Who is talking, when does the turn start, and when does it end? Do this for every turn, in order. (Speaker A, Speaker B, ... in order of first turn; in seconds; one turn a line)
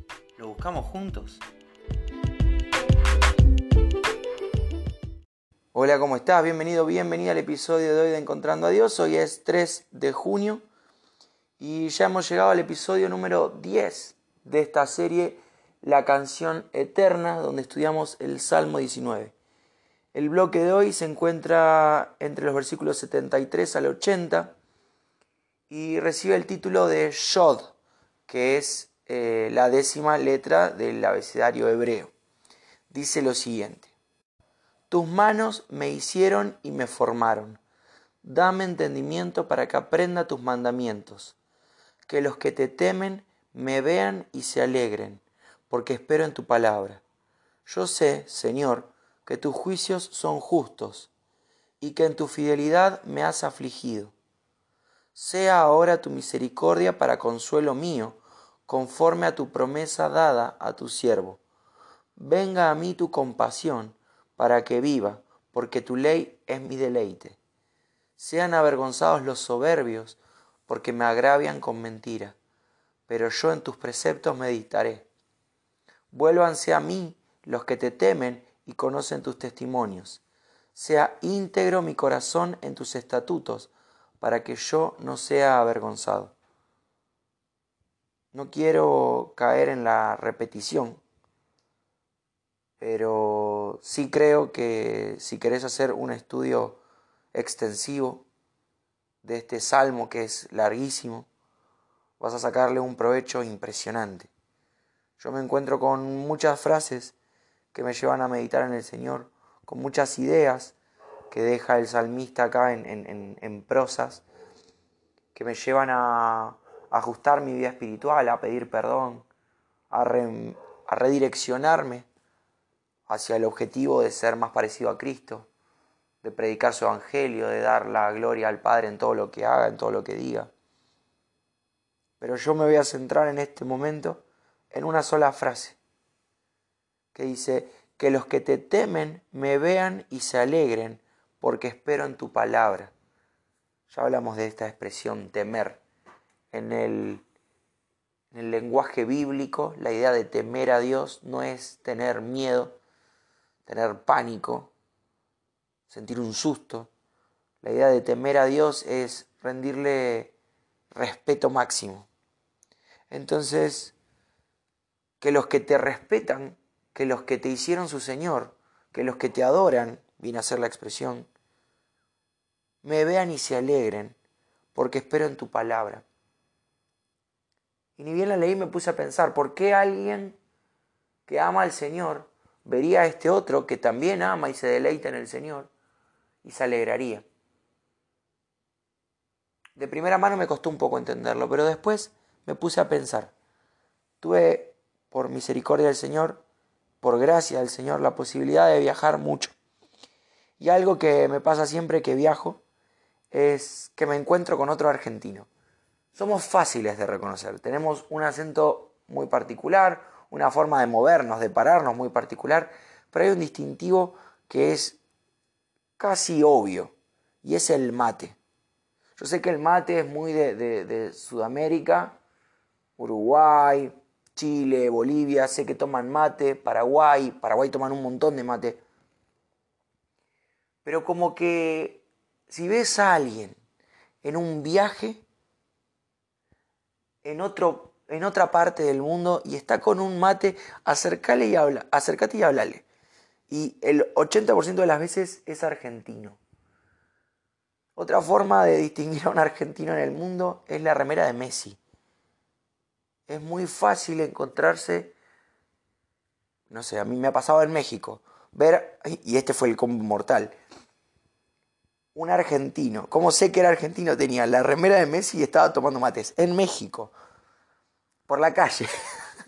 Speaker A: 0.3-1.4
Speaker A: 5.7-10.6
Speaker A: 11.6-19.3
Speaker A: 20.1-24.5
Speaker A: 25.7-27.7
Speaker A: 28.3-32.1
Speaker A: 32.9-33.9
Speaker A: 34.9-37.6
Speaker A: 38.2-41.4
Speaker A: 42.1-47.0
Speaker A: 47.6-51.1
Speaker A: 51.8-54.1
Speaker A: 55.1-61.4
Speaker A: 62.1-67.4
Speaker A: 68.2-72.3
Speaker A: 73.1-75.1
Speaker A: 76.1-80.2
Speaker A: 80.7-86.3
Speaker A: 88.3-91.0
Speaker A: 92.8-96.8
Speaker A: 97.3-98.2
Speaker A: 99.2-101.3
Speaker A: 102.2-104.3
Speaker A: 105.2-107.1
Speaker A: 107.7-110.7
Speaker A: 111.3-114.2
Speaker A: 115.3-119.2
Speaker A: 119.9-122.0
Speaker A: 123.1-125.5
Speaker A: 126.2-130.5
Speaker A: 132.2-135.8
Speaker A: 137.1-142.9
Speaker A: 143.9-145.8
Speaker A: 146.5-147.2
Speaker A: 148.3-152.8
Speaker A: 153.6-154.7
Speaker A: 155.9-156.9
Speaker A: 157.6-160.3
Speaker A: 160.9-162.1
Speaker A: 163.1-163.9
Speaker A: 165.2-171.3
Speaker A: 172.8-174.2
Speaker A: 174.7-176.0
Speaker A: 177.9-180.4
Speaker A: 181.2-185.7
Speaker A: 186.4-187.2
Speaker A: 189.8-193.3
Speaker A: 194.2-196.4
Speaker A: 197.0-199.5
Speaker A: 200.6-202.6
Speaker A: 203.3-205.5
Speaker A: 206.1-215.0
Speaker A: 216.0-216.9
Speaker A: 217.4-218.4
Speaker A: 219.2-222.2
Speaker A: 223.0-228.8
Speaker A: 230.8-233.6
Speaker A: 234.2-235.2
Speaker A: 237.2-242.8
Speaker A: 243.5-246.4
Speaker A: 247.9-251.8
Speaker A: 253.3-255.1
Speaker A: 256.7-260.5
Speaker A: 262.1-267.1
Speaker A: 268.3-268.9